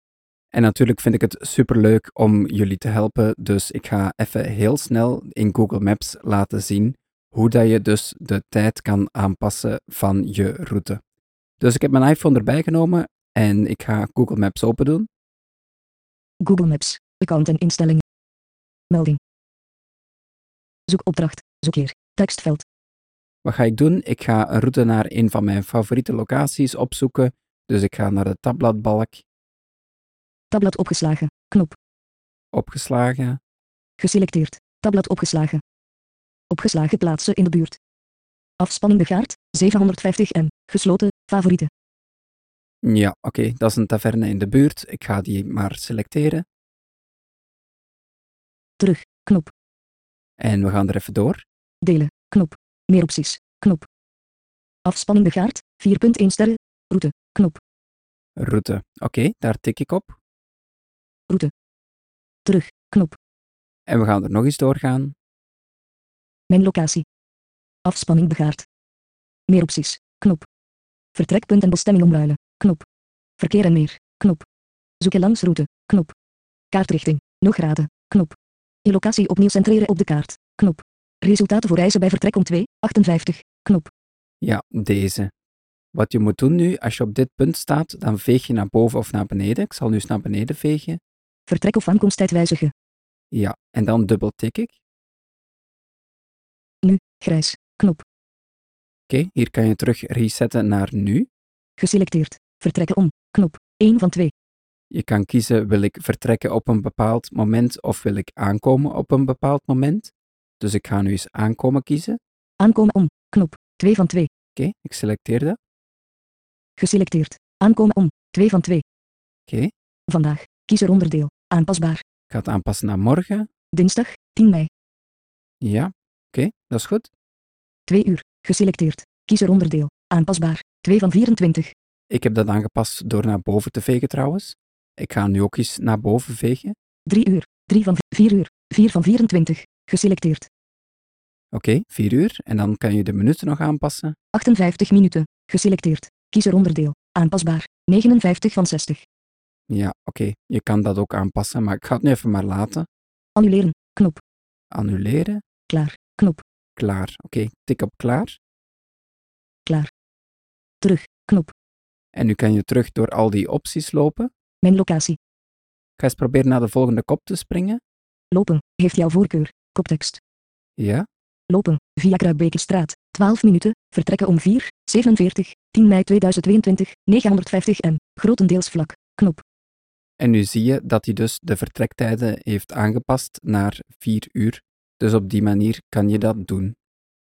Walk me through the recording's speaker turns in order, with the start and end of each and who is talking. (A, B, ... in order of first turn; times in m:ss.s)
0:00.5-0:11.0 A
0:11.6-0:15.1 A
0:16.4-0:18.0 B
0:18.9-0:19.2 B
0:20.9-0:22.6 B
0:23.4-0:29.2 A
0:30.5-0:31.8 B
0:32.5-0:33.4 A
0:34.0-0:35.6 B
0:36.5-0:37.8 B
0:38.6-0:41.7 B
0:42.8-0:46.4 A
0:48.8-0:49.5 B
0:50.4-0:51.4 A
0:51.8-0:53.9 B
0:54.8-0:57.6 B
0:58.4-1:00.2 A
1:02.4-1:03.2 B
1:03.9-1:05.1 A
1:06.5-1:07.0 B
1:07.8-1:08.6 B
1:09.5-1:10.4 B
1:11.2-1:12.8 B
1:13.4-1:14.4 B
1:15.0-1:16.1 B
1:16.7-1:23.9 B
1:24.4-1:25.3 A
1:25.9-1:31.0 A
1:31.5-1:32.7 B
1:33.3-1:34.8 A
1:36.8-1:38.0 B
1:39.1-1:41.3 A
1:41.8-1:44.3 B
1:44.9-1:52.2 A
1:52.6-1:54.3 B
1:54.5-1:55.6 A
1:56.8-1:58.8 B
2:00.1-2:02.0 B
2:02.3-2:03.5 A
2:03.7-2:04.7 B
2:05.6-2:07.1 A
2:07.9-2:11.7 B
2:12.1-2:16.7 A
2:17.1-2:20.5 B
2:21.5-2:24.1 A
2:24.3-2:29.0 B
2:29.7-2:32.9 A
2:33.4-2:34.2 B
2:34.7-2:35.4 A
2:35.7-2:36.4 B
2:36.8-2:38.4 A
2:39.6-2:39.9 B
2:40.8-2:41.5 B
2:42.1-2:44.3 A
2:44.6-2:45.2 B
2:46.0-2:47.8 A
2:48.3-2:50.2 B
2:50.8-2:51.0 A
2:51.5-2:59.4 B
3:00.2-3:06.8 A